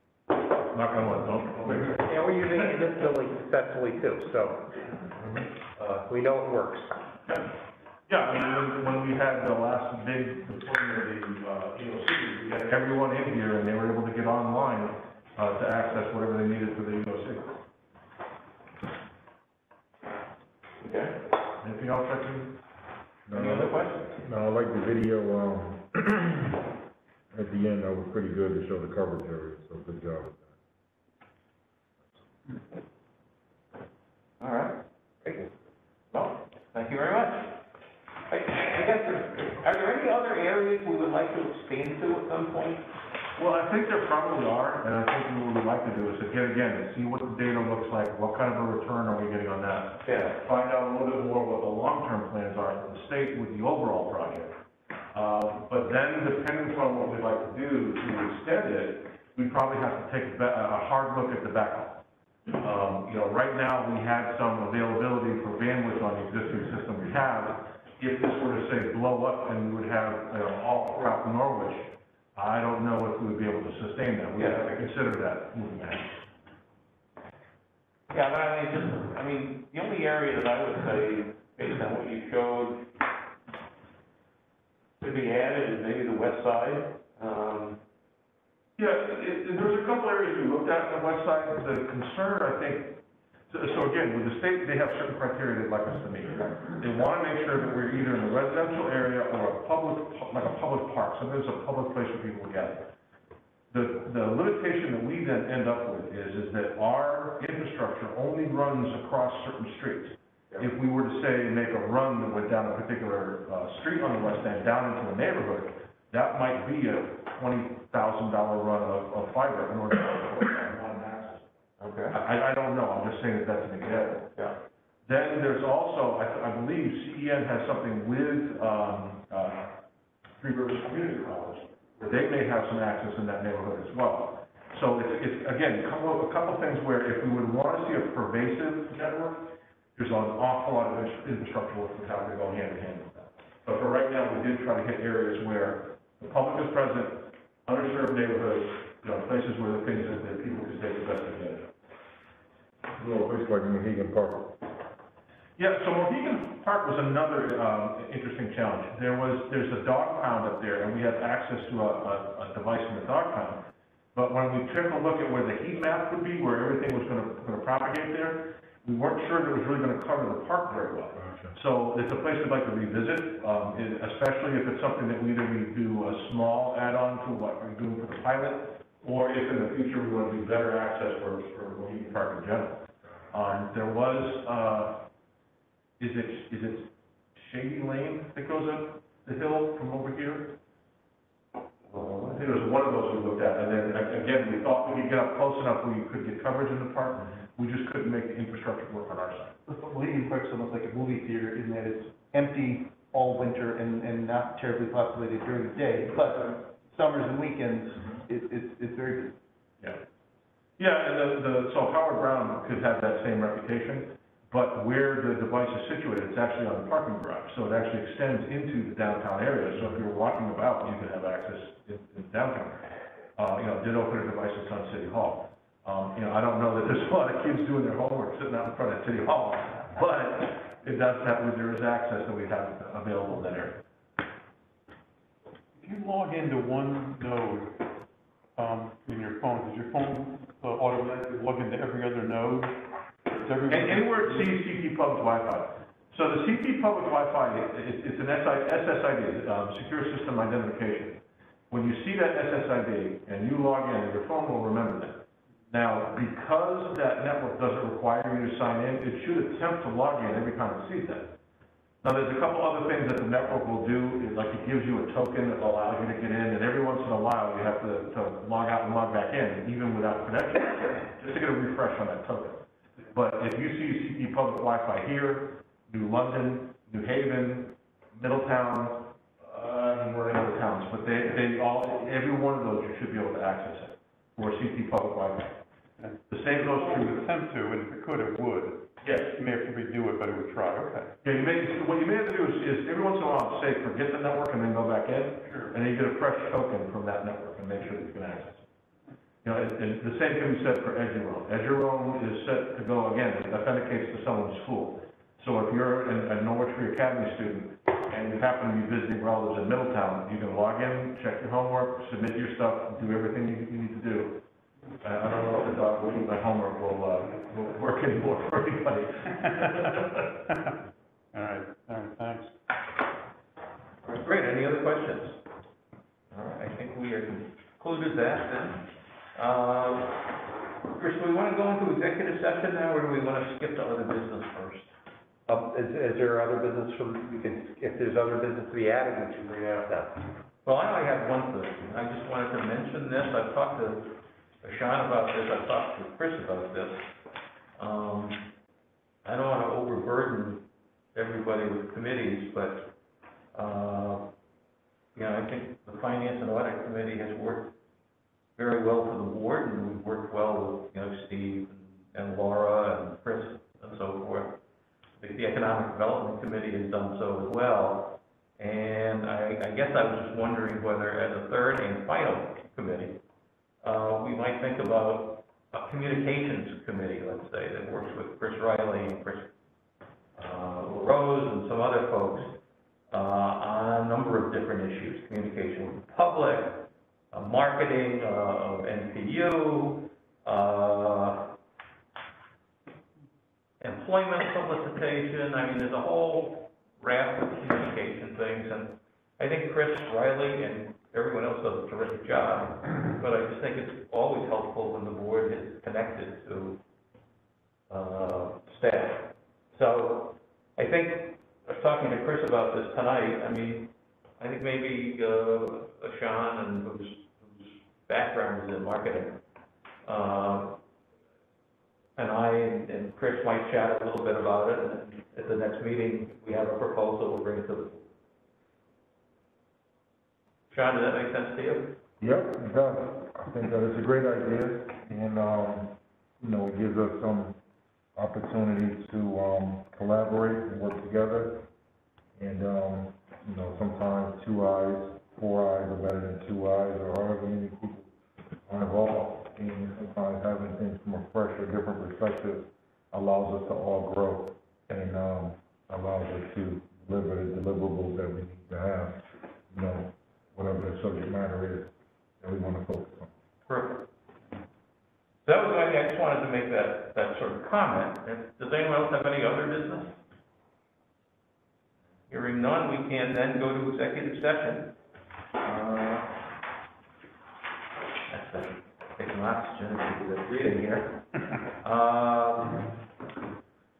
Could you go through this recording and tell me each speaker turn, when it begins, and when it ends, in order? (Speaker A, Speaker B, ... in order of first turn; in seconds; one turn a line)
Speaker A: 0.7-2.1
Speaker B: 1.6-1.9
Speaker C: 1.9-4.7
Speaker C: 5.8-6.9
Speaker A: 8.1-17.6
Speaker D: 20.8-21.1
Speaker A: 21.6-22.6
Speaker E: 23.3-26.7
Speaker D: 23.3-24.1
Speaker E: 27.3-30.5
Speaker D: 34.4-35.4
Speaker D: 36.1-37.6
Speaker D: 38.3-42.8
Speaker A: 43.4-54.6
Speaker D: 50.0-50.4
Speaker A: 55.1-76.2
Speaker D: 74.4-74.7
Speaker D: 78.1-82.9
Speaker D: 85.0-87.8
Speaker A: 88.8-102.9
Speaker A: 103.7-121.5
Speaker D: 121.8-122.2
Speaker A: 122.1-124.3
Speaker A: 125.0-129.8
Speaker A: 130.4-151.7
Speaker E: 153.0-154.6
Speaker A: 155.6-185.1
Speaker E: 171.2-171.5
Speaker A: 186.0-190.6
Speaker A: 191.9-199.6
Speaker B: 199.7-209.3
Speaker A: 210.8-233.8
Speaker F: 235.8-237.8
Speaker F: 238.6-244.5
Speaker A: 243.7-261.4
Speaker A: 262.0-285.6
Speaker F: 286.0-291.1
Speaker A: 286.3-287.2
Speaker A: 289.0-289.3
Speaker A: 291.2-298.6
Speaker F: 295.4-295.7
Speaker A: 299.4-314.4
Speaker A: 315.0-320.2
Speaker F: 321.3-322.5
Speaker D: 324.0-325.4
Speaker D: 326.3-330.4
Speaker D: 330.9-334.9
Speaker C: 335.5-340.2
Speaker D: 340.6-347.0
Speaker D: 347.8-348.5
Speaker D: 349.2-352.9
Speaker D: 353.5-354.3
Speaker D: 355.1-357.7
Speaker D: 358.6-364.6
Speaker D: 365.2-373.2
Speaker D: 373.8-379.5
Speaker D: 380.3-382.6
Speaker D: 383.1-391.5
Speaker D: 393.8-406.8
Speaker D: 407.9-419.4
Speaker D: 420.0-420.8
Speaker D: 422.1-428.1
Speaker D: 430.7-432.0
Speaker E: 432.2-437.6
Speaker E: 438.1-441.7
Speaker E: 442.4-448.1
Speaker E: 448.6-463.3
Speaker D: 463.7-464.1
Speaker D: 465.4-470.1
Speaker D: 472.3-474.9
Speaker D: 475.6-476.3
Speaker D: 478.3-482.9